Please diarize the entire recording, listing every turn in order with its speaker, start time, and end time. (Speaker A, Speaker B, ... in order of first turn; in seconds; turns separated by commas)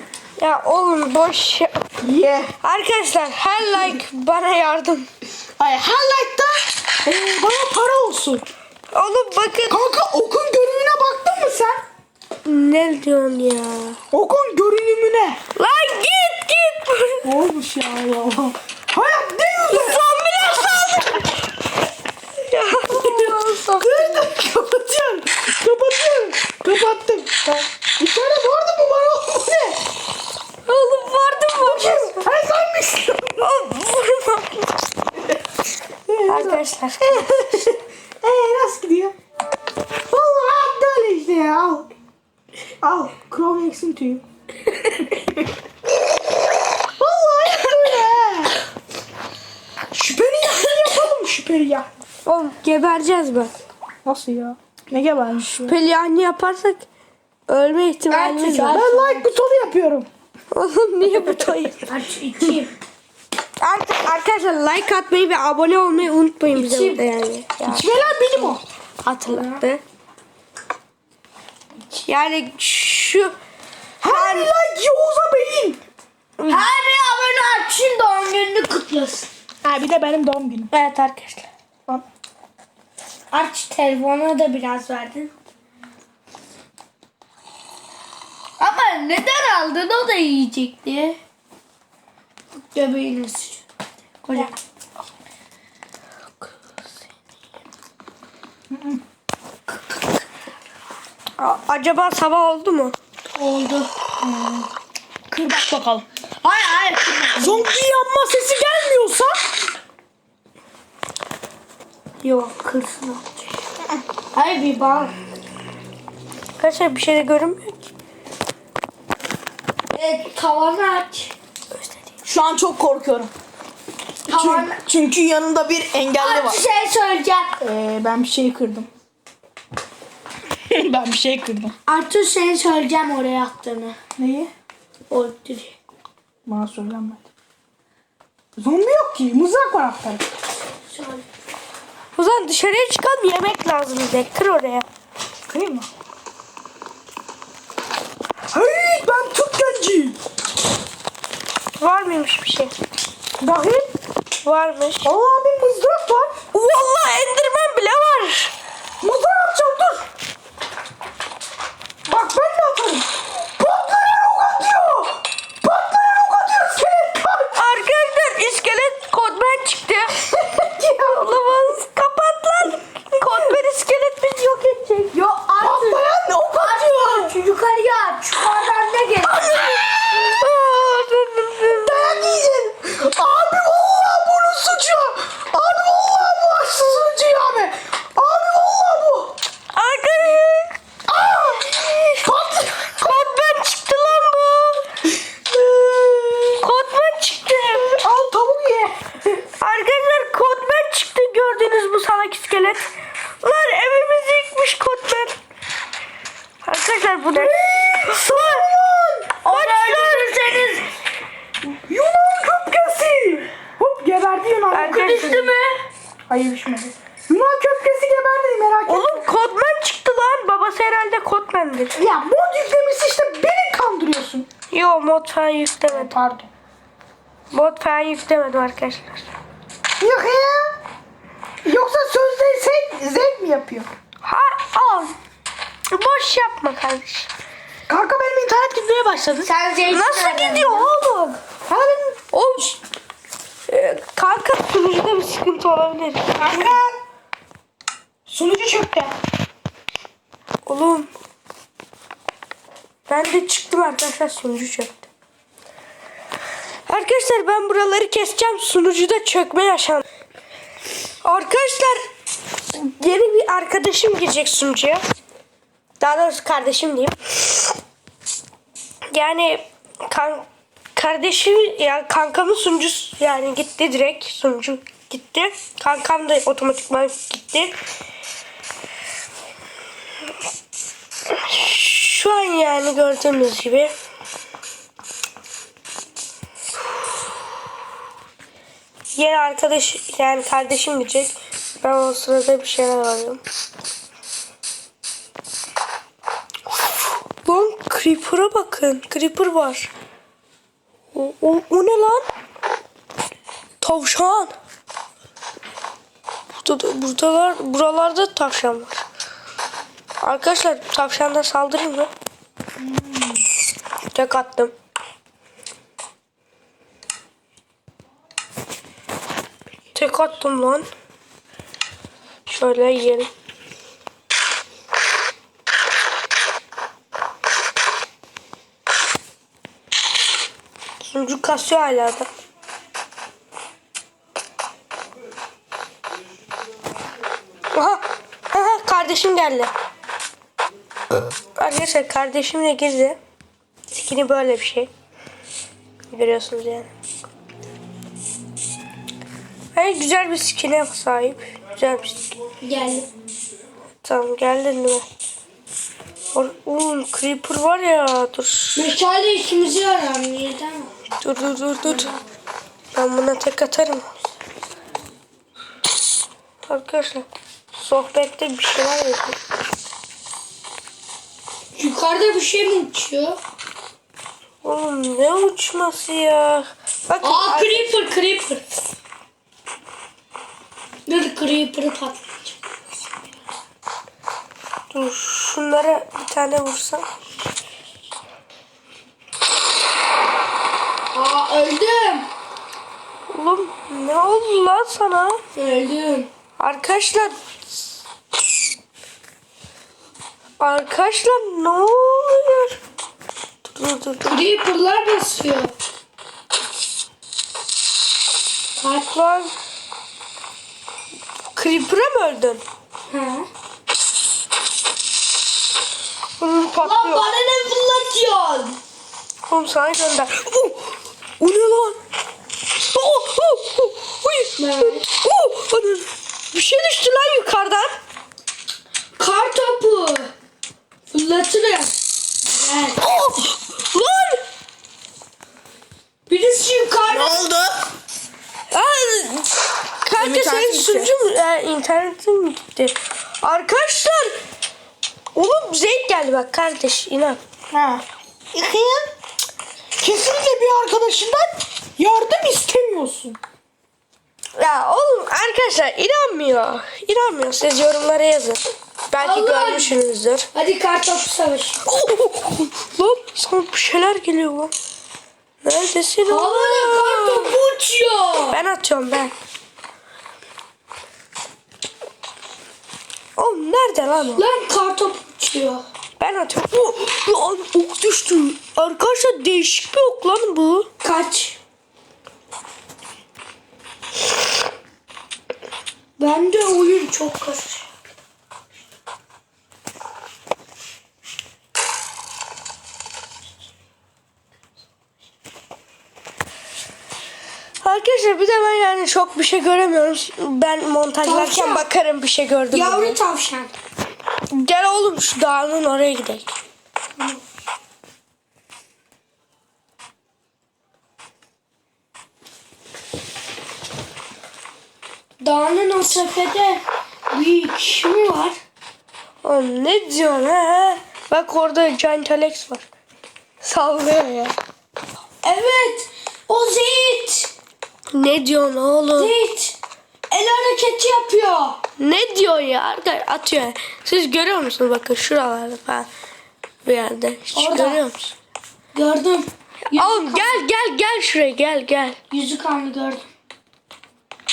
Speaker A: 0.4-1.9, Speaker B: 2.0-2.5, Speaker A: 2.6-5.1, Speaker B: 5.6-8.4, Speaker A: 8.9-9.8, Speaker B: 9.7-11.8, Speaker A: 12.4-14.0, Speaker B: 14.1-15.4, Speaker A: 15.6-17.3, Speaker B: 17.2-21.3, Speaker A: 19.7-21.2, Speaker A: 22.4-23.8, Speaker C: 22.9-24.3, Speaker B: 23.8-29.8, Speaker A: 30.6-32.3, Speaker B: 31.5-33.5, Speaker A: 33.4-34.9, Speaker B: 36.1-39.1, Speaker A: 36.3-37.6, Speaker B: 40.1-41.9, Speaker B: 42.8-44.2, Speaker B: 44.9-45.5, Speaker B: 47.0-48.6, Speaker B: 49.9-51.9, Speaker A: 52.2-53.5, Speaker B: 54.0-55.7, Speaker A: 55.5-56.9, Speaker A: 57.5-58.8, Speaker C: 58.1-59.3, Speaker B: 58.5-60.1, Speaker A: 60.5-61.9, Speaker B: 61.1-61.6, Speaker C: 61.9-62.7, Speaker A: 63.6-68.0, Speaker C: 66.5-67.0, Speaker B: 67.6-68.6, Speaker A: 69.0-69.8, Speaker C: 69.2-69.6, Speaker A: 72.0-73.3, Speaker B: 74.0-75.8, Speaker A: 74.0-74.5, Speaker A: 76.4-76.7, Speaker C: 76.5-79.3, Speaker B: 79.6-80.7, Speaker A: 80.7-81.5, Speaker C: 83.3-85.3, Speaker C: 88.6-91.2, Speaker C: 92.5-93.6, Speaker C: 94.2-94.5, Speaker B: 98.7-99.0, Speaker A: 101.4-103.0, Speaker C: 103.3-103.9, Speaker B: 104.2-104.7, Speaker B: 105.3-106.0, Speaker C: 106.4-107.6, Speaker B: 107.3-109.5, Speaker C: 112.2-113.5, Speaker C: 114.3-115.1, Speaker A: 116.6-117.9, Speaker C: 119.9-121.3, Speaker A: 121.7-122.0, Speaker B: 122.2-123.3, Speaker C: 124.3-124.8, Speaker B: 124.3-126.6, Speaker C: 126.2-127.6, Speaker B: 127.6-128.9, Speaker B: 130.7-131.7, Speaker C: 131.9-134.0, Speaker B: 134.2-134.5, Speaker C: 135.1-135.8, Speaker B: 136.4-137.2, Speaker B: 138.6-140.2, Speaker C: 140.9-141.2, Speaker A: 142.2-144.8, Speaker B: 145.5-145.9, Speaker B: 148.5-150.2, Speaker A: 151.8-152.7, Speaker B: 153.4-153.9, Speaker A: 154.4-155.1, Speaker B: 155.0-156.3, Speaker A: 156.5-158.5, Speaker B: 159.0-160.1, Speaker B: 162.1-167.7, Speaker A: 167.5-175.1, Speaker B: 170.2-171.6, Speaker C: 175.1-176.0, Speaker B: 175.2-177.3, Speaker C: 176.6-179.5, Speaker B: 179.4-179.8, Speaker A: 180.1-182.3, Speaker B: 181.8-189.3, Speaker A: 189.7-190.7, Speaker B: 191.1-192.9, Speaker A: 193.0-194.9, Speaker B: 195.3-196.6, Speaker A: 196.6-198.0, Speaker B: 197.8-199.4, Speaker A: 199.6-202.8, Speaker A: 203.4-205.3, Speaker A: 206.6-208.6, Speaker B: 207.3-209.7, Speaker C: 209.4-210.8, Speaker A: 209.5-210.3, Speaker B: 211.6-215.5, Speaker A: 214.7-215.4, Speaker C: 214.8-215.8, Speaker B: 216.3-219.2, Speaker A: 218.9-222.0, Speaker B: 221.9-224.5, Speaker A: 224.7-226.1, Speaker B: 225.9-226.5, Speaker A: 227.5-229.3, Speaker B: 230.0-230.8, Speaker B: 231.6-233.9, Speaker A: 234.2-235.1, Speaker A: 235.9-237.3, Speaker B: 237.9-239.5, Speaker C: 239.4-241.2, Speaker A: 239.9-241.3, Speaker B: 241.7-242.2, Speaker A: 242.3-242.8, Speaker A: 243.7-246.7, Speaker B: 246.4-247.0, Speaker B: 248.3-249.1, Speaker A: 250.7-251.1, Speaker A: 253.1-255.1, Speaker A: 256.9-260.0, Speaker A: 261.2-262.0, Speaker A: 262.7-265.0, Speaker A: 266.0-267.1, Speaker A: 269.1-277.7, Speaker A: 281.3-283.9, Speaker A: 289.1-293.4, Speaker A: 297.4-299.9, Speaker A: 301.1-302.2, Speaker A: 303.8-304.5, Speaker A: 306.6-309.0, Speaker A: 310.2-312.1, Speaker B: 312.8-313.4, Speaker A: 314.1-314.7, Speaker A: 319.9-320.9, Speaker A: 322.4-323.3, Speaker A: 331.0-332.3, Speaker A: 337.7-339.7, Speaker A: 341.5-343.2, Speaker A: 343.9-344.9, Speaker A: 346.1-346.9, Speaker A: 349.7-352.3, Speaker C: 352.6-353.1, Speaker A: 354.0-355.0, Speaker A: 356.3-358.9, Speaker C: 358.7-360.9, Speaker A: 361.2-362.1, Speaker A: 362.9-364.1, Speaker A: 366.7-369.4, Speaker C: 371.8-373.4, Speaker A: 374.6-378.0, Speaker C: 377.2-378.6, Speaker C: 381.1-382.6, Speaker A: 384.9-387.1, Speaker C: 391.1-392.3, Speaker A: 393.3-395.4, Speaker C: 395.5-396.3, Speaker A: 396.6-397.3, Speaker A: 400.6-402.8, Speaker A: 403.7-404.4, Speaker C: 404.2-405.7, Speaker C: 408.8-409.1, Speaker A: 409.1-409.5, Speaker A: 411.5-412.6, Speaker C: 413.1-413.5, Speaker A: 416.4-417.3, Speaker C: 416.8-418.8, Speaker A: 419.5-422.0, Speaker A: 422.8-427.9, Speaker C: 424.6-425.0, Speaker C: 429.2-430.3, Speaker C: 431.1-431.9, Speaker C: 432.5-433.0, Speaker A: 433.0-434.4, Speaker C: 436.3-437.5, Speaker B: 437.1-437.9, Speaker A: 438.7-444.4, Speaker B: 440.1-441.1, Speaker A: 445.3-447.4, Speaker B: 447.7-449.1, Speaker B: 450.0-453.4, Speaker A: 454.6-458.6, Speaker A: 459.1-460.5, Speaker C: 459.2-460.0, Speaker C: 460.5-461.8, Speaker A: 461.8-464.7, Speaker A: 465.6-467.6, Speaker C: 466.3-468.6, Speaker A: 468.5-469.3, Speaker A: 473.4-474.4, Speaker C: 474.4-475.8, Speaker A: 476.2-480.9, Speaker C: 481.0-481.6, Speaker C: 486.2-487.9, Speaker A: 497.8-503.2, Speaker C: 501.2-501.9, Speaker C: 502.7-503.7, Speaker A: 504.5-506.6, Speaker C: 507.2-507.4, Speaker C: 515.4-518.6, Speaker A: 519.4-522.9, Speaker A: 523.6-524.5, Speaker C: 525.4-527.5, Speaker A: 528.1-529.3, Speaker C: 529.2-529.8, Speaker C: 530.3-531.8, Speaker A: 532.0-536.1, Speaker A: 536.8-538.3, Speaker C: 537.5-538.0, Speaker C: 538.9-540.6, Speaker A: 539.9-542.2, Speaker C: 542.3-543.2